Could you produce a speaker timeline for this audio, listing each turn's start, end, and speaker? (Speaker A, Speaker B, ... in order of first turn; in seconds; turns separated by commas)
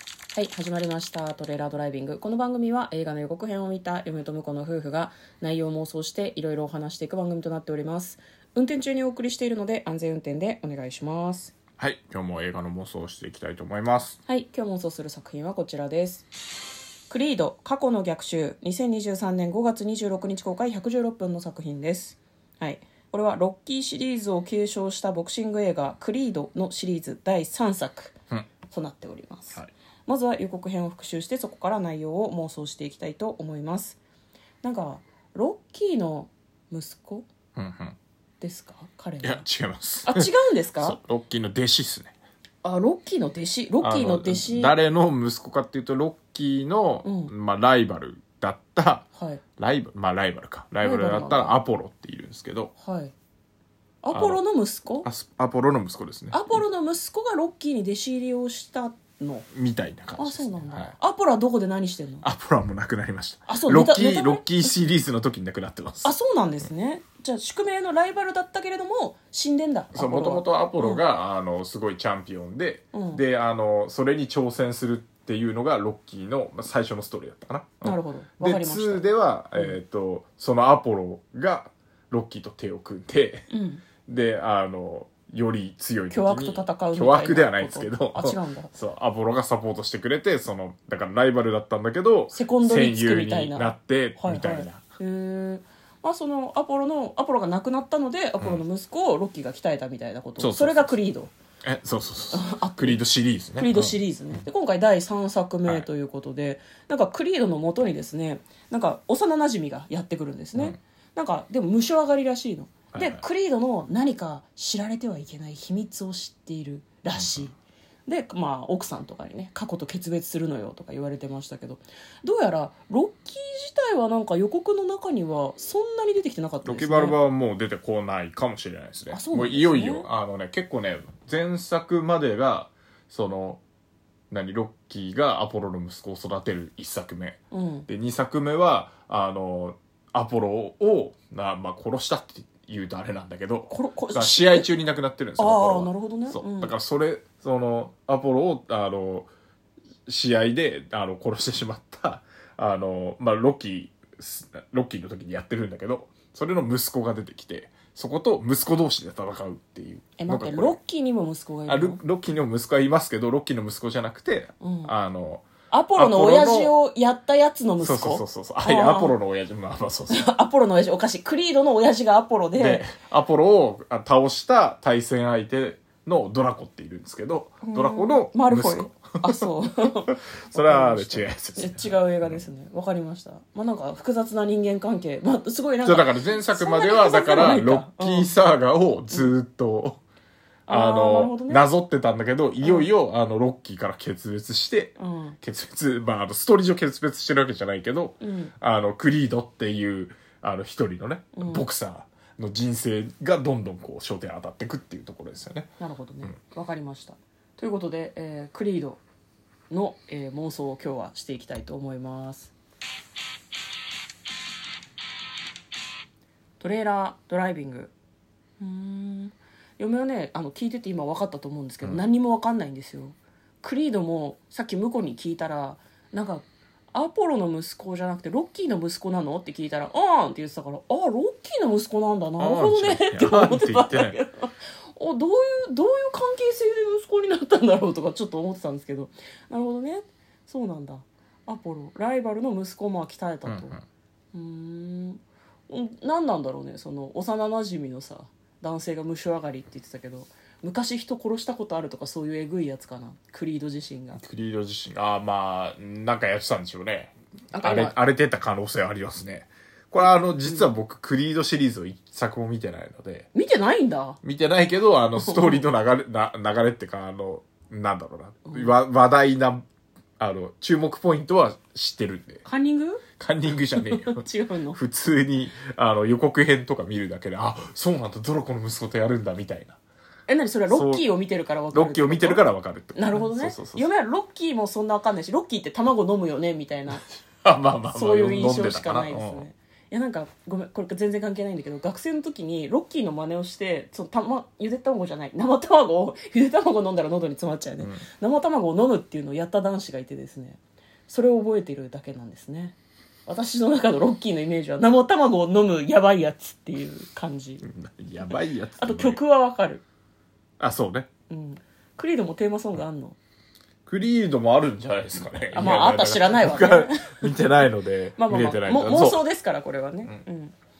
Speaker A: 0.3-11.5, Speaker B: 11.8-14.2, Speaker A: 14.3-16.3, Speaker A: 17.1-28.1, Speaker A: 28.7-34.0, Speaker A: 34.6-37.2, Speaker B: 37.5-38.0, Speaker A: 38.4-39.5, Speaker B: 39.2-40.3, Speaker A: 40.0-41.0, Speaker B: 40.8-42.1, Speaker A: 42.6-44.7, Speaker B: 43.8-49.1, Speaker A: 47.0-47.3, Speaker A: 49.1-49.4, Speaker B: 49.6-52.7, Speaker A: 50.8-51.6, Speaker A: 52.8-53.1, Speaker A: 54.0-55.1, Speaker B: 54.1-54.4, Speaker B: 55.0-56.6, Speaker A: 56.3-59.5, Speaker B: 59.5-60.9, Speaker A: 60.2-62.2, Speaker B: 62.2-66.1, Speaker A: 63.5-64.5, Speaker A: 66.0-71.0, Speaker B: 69.9-83.5, Speaker A: 72.9-73.2, Speaker A: 77.8-79.8, Speaker A: 83.5-83.8, Speaker B: 84.0-94.8, Speaker A: 86.1-88.7, Speaker A: 92.3-101.3, Speaker B: 100.4-100.9, Speaker B: 101.6-104.0, Speaker A: 102.3-103.0, Speaker A: 103.6-127.2, Speaker B: 112.9-113.2, Speaker B: 117.2-117.5, Speaker B: 126.6-133.6, Speaker A: 129.1-130.1, Speaker B: 134.3-149.3, Speaker A: 137.5-137.9, Speaker A: 143.7-144.7, Speaker A: 145.4-146.7, Speaker B: 150.1-160.8, Speaker A: 160.2-162.0, Speaker B: 161.7-166.7, Speaker A: 164.6-164.9, Speaker A: 165.7-169.2, Speaker B: 167.8-170.3, Speaker A: 170.1-172.9, Speaker B: 172.6-182.4, Speaker A: 177.6-188.3, Speaker B: 185.8-190.0, Speaker A: 190.7-191.6, Speaker B: 190.7-205.7, Speaker A: 192.6-192.9, Speaker A: 195.0-195.4, Speaker A: 198.2-198.5, Speaker A: 201.3-201.6, Speaker A: 205.8-209.0, Speaker A: 209.7-212.5, Speaker A: 216.6-217.9, Speaker A: 218.6-243.8, Speaker B: 232.4-234.2, Speaker B: 243.4-243.8, Speaker A: 244.3-254.2, Speaker B: 254.2-263.3, Speaker A: 257.5-257.9, Speaker A: 260.0-260.7, Speaker A: 263.3-264.2, Speaker B: 264.2-269.6, Speaker A: 265.2-265.7, Speaker A: 268.4-268.7, Speaker B: 270.2-272.4, Speaker A: 272.4-273.0, Speaker B: 273.2-279.8, Speaker A: 273.7-274.8, Speaker A: 280.3-287.0, Speaker B: 280.7-281.1, Speaker B: 281.7-283.9, Speaker B: 287.4-289.5, Speaker A: 287.9-302.8, Speaker B: 297.8-298.0, Speaker A: 303.3-307.7, Speaker B: 307.6-309.2, Speaker A: 308.2-309.8, Speaker B: 310.6-311.1, Speaker A: 311.3-313.2, Speaker B: 313.9-319.2, Speaker A: 315.5-317.6, Speaker A: 318.2-320.5